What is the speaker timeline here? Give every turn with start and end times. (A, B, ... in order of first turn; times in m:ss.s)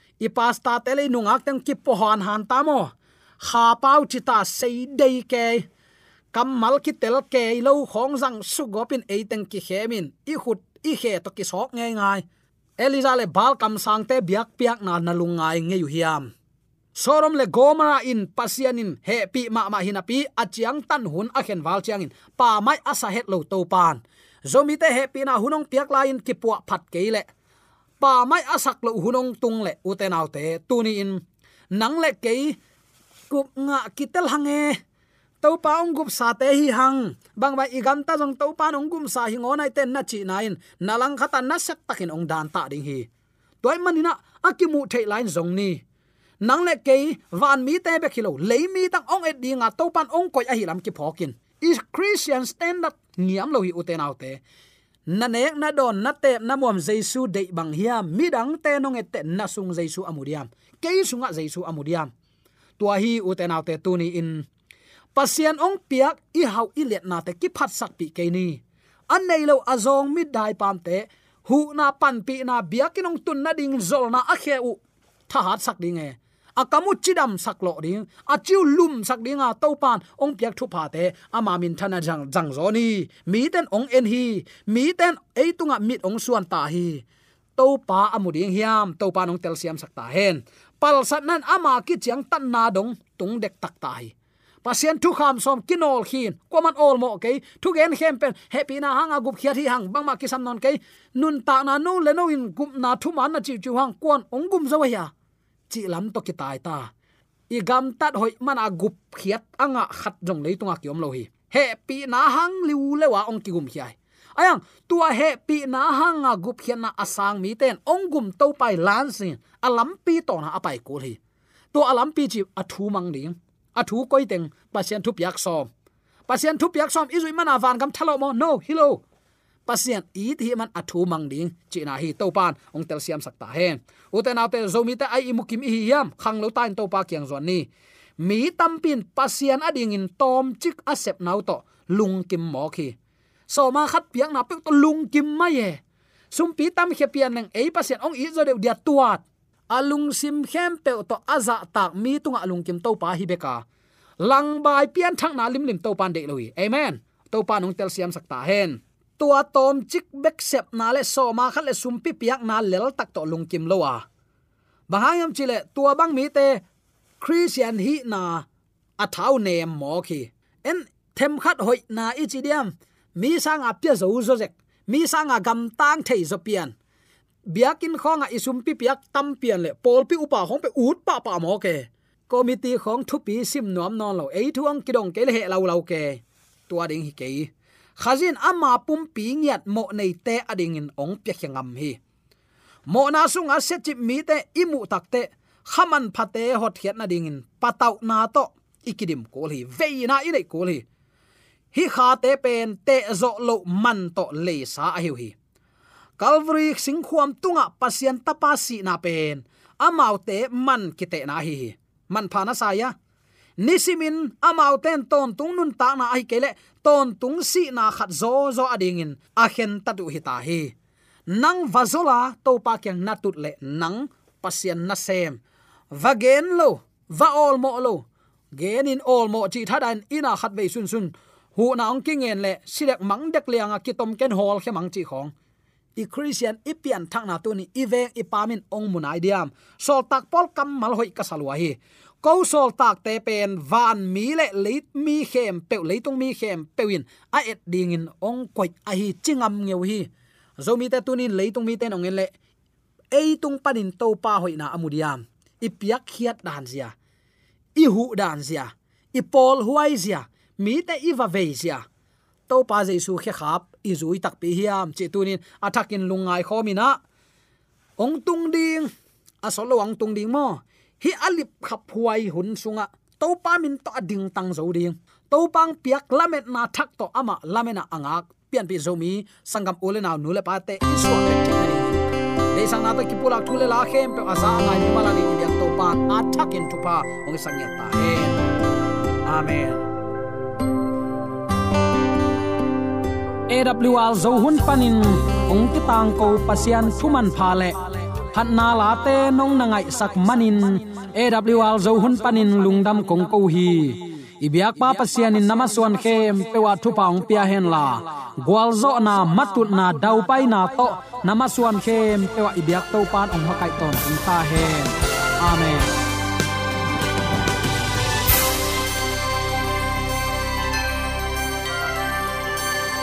0:00.2-0:05.6 A
0:06.3-0:12.2 A
0:12.8-0:16.3 A
0:16.9-0:27.2 A
0:28.0-0:31.2 A
0:31.7-0:32.6 A
0:33.3-0:34.8 A
0:35.4-0:43.1 A
0:43.6-0:45.8 A
0:46.4-0:54.4 A
0:55.1-1:02.1 A
1:02.8-1:04.4 A
1:05.1-1:27.0 A
1:27.6-1:34.1 A
1:34.6-1:45.1 A
1:45.7-1:46.9 A
1:47.5-2:01.2 A
2:01.7-2:05.7 A
2:06.3-2:09.0 A
2:09.6-2:22.9 A
2:23.5-2:25.8 A
2:26.3-2:33.6 A
2:34.2-2:44.0 A
2:44.9-2:46.6 A
2:47.2-2:48.4 A
2:49.0-2:56.7 A
2:57.5-3:12.0 A
3:12.9-3:20.8 A
3:21.7-3:25.3 A
3:26.2-3:32.9 A
3:33.6-3:40.7 A
3:41.3-3:45.4 A
3:45.9-3:48.0 A
3:48.5-3:55.3 A
3:56.0-4:12.3 A
4:13.1-4:16.9 A
4:17.8-4:21.8 A
4:22.5-4:27.0 A
4:28.0-4:28.9 A
4:29.4-4:48.4 A
4:49.2-4:49.8 A
4:53.5-5:15.9 A